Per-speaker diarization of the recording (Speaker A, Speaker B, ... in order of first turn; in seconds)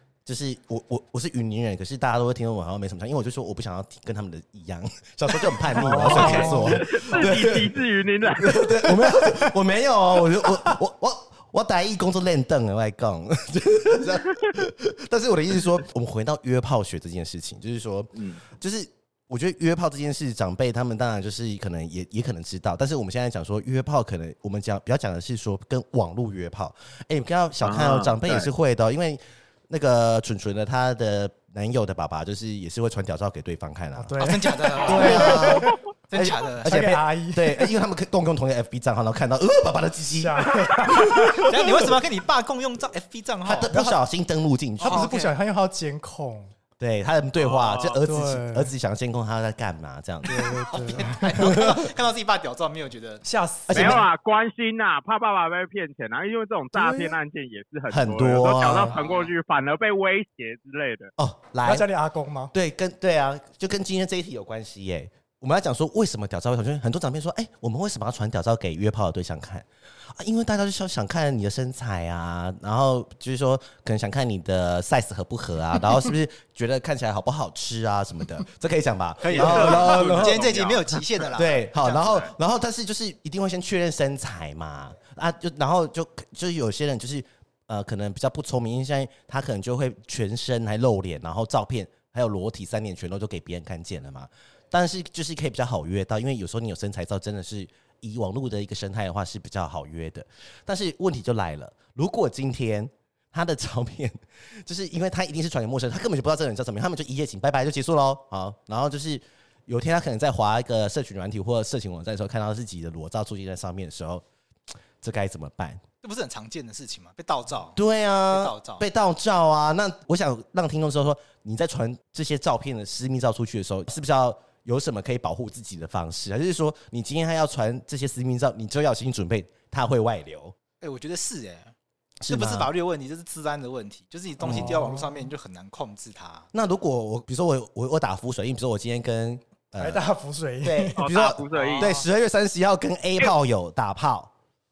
Speaker A: 0.3-41.8, 43.5-45.1, 46.8-50.5, 51.3-51.9, 53.7-54.0, 57.9-58.9, 61.2-61.9, 62.5-80.5, 81.3-114.2, 115.0-115.8, 117.8-130.6, 132.2-132.7, 134.4-134.8, 136.5-140.0, 140.6-144.3
Speaker B: 5.7-7.2, 34.0-35.8, 36.6-37.7, 40.2-41.6, 43.7-44.0, 44.8-46.5, 48.0-48.7, 50.2-51.5, 53.2-54.0, 56.8-57.1, 61.6-62.5, 134.4-135.3, 139.8-141.0
Speaker C: 5.8-6.7, 34.2-36.8, 41.5-43.7, 44.8-45.3, 50.7-53.2, 58.7-59.3, 79.2-81.6, 116.0-117.8, 118.3-118.9, 130.8-131.7, 132.3-136.5, 141.5-142.1
Speaker D: 6.1-8.8, 27.6-28.5, 47.4-48.0, 53.7-61.1, 79.3-80.9, 81.8-82.3, 141.0-141.9